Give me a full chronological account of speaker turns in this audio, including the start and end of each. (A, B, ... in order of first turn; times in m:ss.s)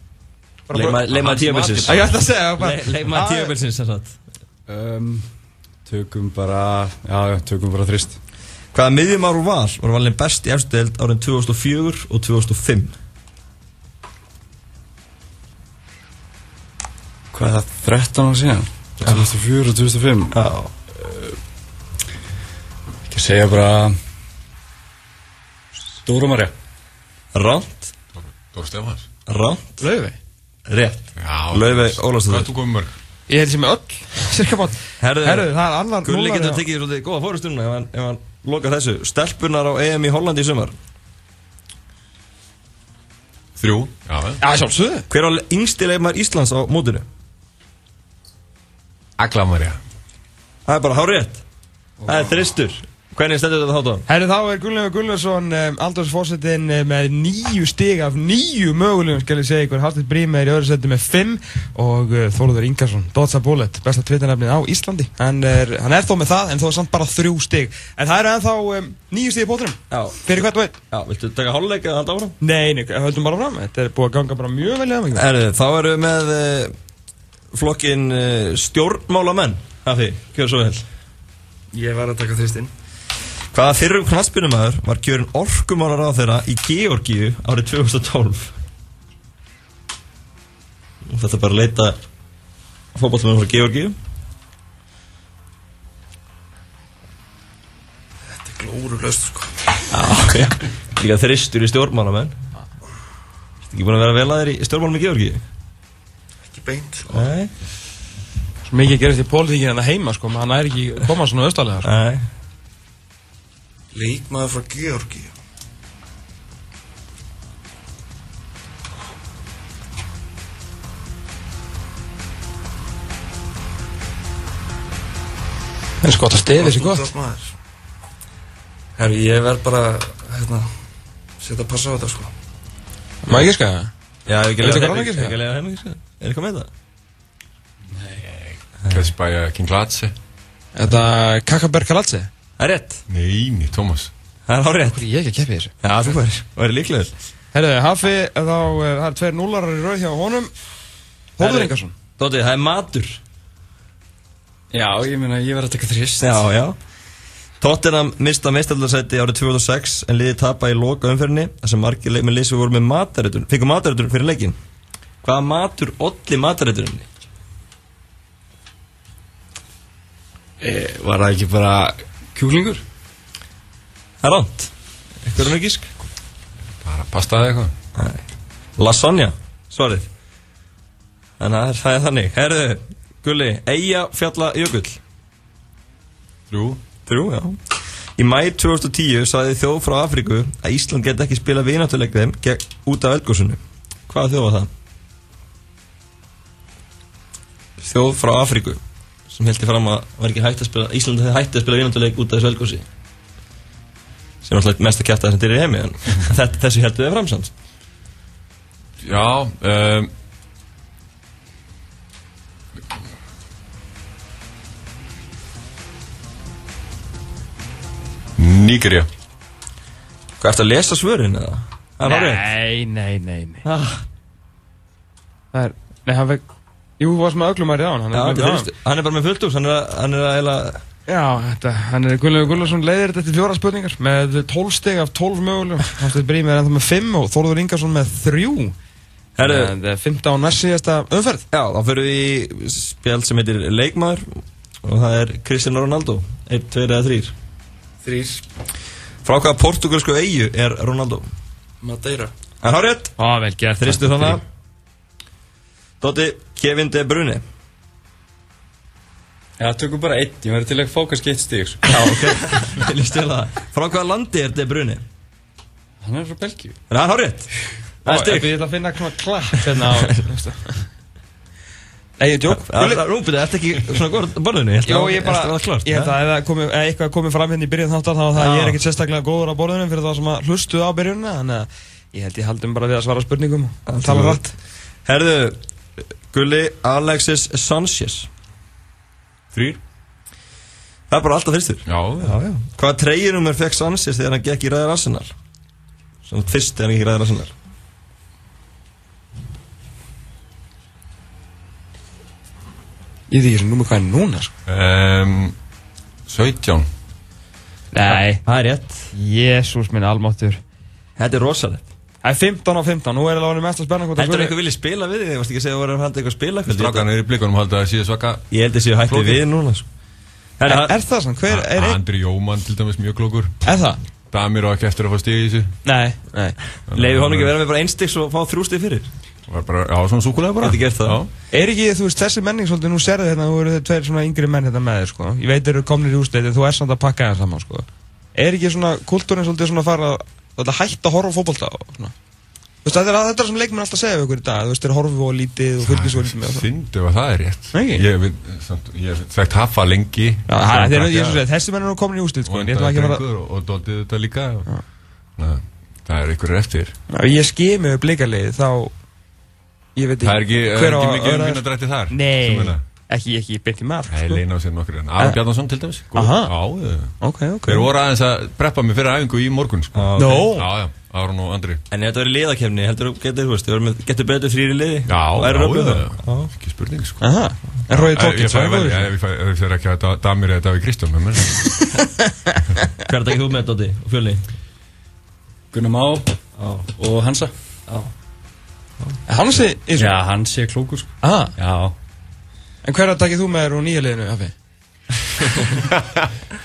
0:00.7-0:01.0 A
0:00.7-0:04.2 B
0:00.8-0:02.1 C
0:01.8-0:03.5 A
0:04.7-0:05.3 D
0:05.8-0:08.2 D
0:08.7-0:12.9 B
0:17.3-0:20.4 D
0:20.3-0:20.7 B
0:23.1-0:24.0 D
0:26.0-0:26.5 D
0:27.3-0:27.9 B
0:28.4-0:29.0 C
0:29.3-0:29.8 B
0:29.8-0:30.2 A
0:30.7-0:32.5 B
0:31.2-0:32.9 C
0:33.3-0:36.6 A
0:35.0-0:35.5 B
0:36.0-0:40.7 B
0:43.6-0:44.4 C
0:44.4-0:45.1 A
0:45.1-0:47.0 B
0:49.2-0:49.8 C
0:50.6-0:51.4 B
0:52.0-0:54.0 B
0:54.1-1:10.7 A
1:09.9-1:12.4 B
1:12.4-1:15.2 A
1:15.1-1:16.7 B
1:17.5-1:20.8 B
1:21.7-1:22.7 E
1:23.5-1:28.5 B
1:31.0-1:32.0 B
1:32.9-1:34.0 B
1:38.3-1:39.6 E
1:39.9-1:42.3 B
1:43.7-1:45.4 B
1:46.5-1:47.3 E
1:47.1-1:47.5 B
1:48.6-1:51.9 A
1:51.8-1:52.2 B
1:53.9-1:55.3 E
2:06.0-2:07.1 A
2:06.6-2:07.5 E
2:09.0-2:10.7 E
2:11.4-2:12.3 E
2:13.2-2:13.9 A
2:14.3-2:16.7 B
2:14.6-2:15.4 A
2:18.3-2:20.1 C
2:20.7-2:22.3 A
2:22.6-2:23.0 B
2:23.1-2:24.1 C
2:24.5-2:25.0 B
2:24.9-2:25.7 A
2:25.8-2:27.1 B
2:27.5-2:30.5 A
2:31.4-2:31.9 A
2:31.4-2:33.2 B
2:34.7-2:36.4 D
2:36.2-2:36.8 B
2:37.6-2:44.6 B
2:45.2-2:47.0 B
2:50.6-2:52.8 D
2:54.2-2:54.7 B
2:55.2-2:55.9 B
2:56.8-2:57.7 C
2:58.0-2:58.2 B
2:58.8-3:00.0 B
3:01.4-3:05.0 B
3:06.5-3:06.8 C
3:07.0-3:07.6 B
3:08.2-3:14.7 B
3:17.8-3:22.8 B
3:24.4-3:27.5 B
3:29.0-3:30.1 C
3:38.4-3:39.1 C
3:40.4-3:42.5 B
3:42.0-3:43.6 A
3:43.6-3:44.0 B
3:45.5-3:46.4 A
3:47.0-3:48.7 A
3:48.1-3:50.8 B
3:51.1-3:58.7 A
3:59.4-3:59.7 B
3:59.4-4:01.4 A
4:01.5-4:04.2 B
4:04.8-4:07.3 B
4:08.0-4:08.4 E
4:09.2-4:11.3 B
4:11.8-4:12.3 E
4:12.6-4:13.1 B
4:13.2-4:14.1 A
4:13.8-4:14.4 B
4:16.0-4:17.4 B
4:19.6-4:21.8 D
4:21.8-4:25.0 B
4:26.0-4:26.8 D
4:26.9-4:27.5 B
4:28.0-4:28.5 B
4:28.0-4:30.8 A
4:32.2-4:33.0 A
4:32.5-4:36.1 B
4:34.8-4:44.4 A
4:38.3-4:38.8 B
4:43.9-4:44.5 B
4:45.0-4:45.6 B
4:46.3-4:48.3 B
4:49.5-4:49.8 C
4:51.1-4:55.3 B
4:51.9-4:52.4 C
4:56.2-4:57.5 B
5:03.3-5:04.5 A
5:04.7-5:05.6 C
5:06.3-5:06.9 C
5:07.9-5:08.4 A
5:08.1-5:09.1 B
5:09.1-5:10.6 A
5:11.2-5:11.8 B
5:12.2-5:14.6 A
5:14.2-5:17.1 B
5:16.6-5:18.5 C
5:18.5-5:19.8 B
5:19.0-5:19.5 C
5:20.6-5:20.9 B
5:20.6-5:22.0 A
5:21.5-5:23.6 C
5:23.6-5:24.0 A
5:24.3-5:25.8 C
5:25.8-5:26.6 A
5:26.9-5:27.5 C
5:26.9-5:29.1 B
5:29.5-5:31.3 C
5:30.6-5:31.2 B
5:31.5-5:42.1 A
5:42.8-5:46.7 A
5:45.8-5:51.4 C
5:47.7-5:48.0 A
5:50.5-5:53.2 A
5:52.4-5:54.7 C
5:55.4-5:56.9 C
5:57.1-5:58.9 A
5:59.9-6:04.4 A
6:00.2-6:02.8 C
6:04.1-6:07.1 C
6:06.1-6:06.5 A
6:07.2-6:07.9 A
6:07.7-6:11.8 C
6:09.9-6:10.5 B
6:10.2-6:10.6 A
6:11.9-6:16.5 B
6:15.1-6:17.2 C
6:17.2-6:19.1 A
6:17.9-6:21.7 C
6:23.0-6:24.4 B
6:25.7-6:26.4 D
6:26.6-6:26.9 B
6:26.9-6:27.5 D
6:29.3-6:30.1 A
6:29.9-6:32.0 D
6:31.2-6:31.5 A
6:32.8-6:34.5 A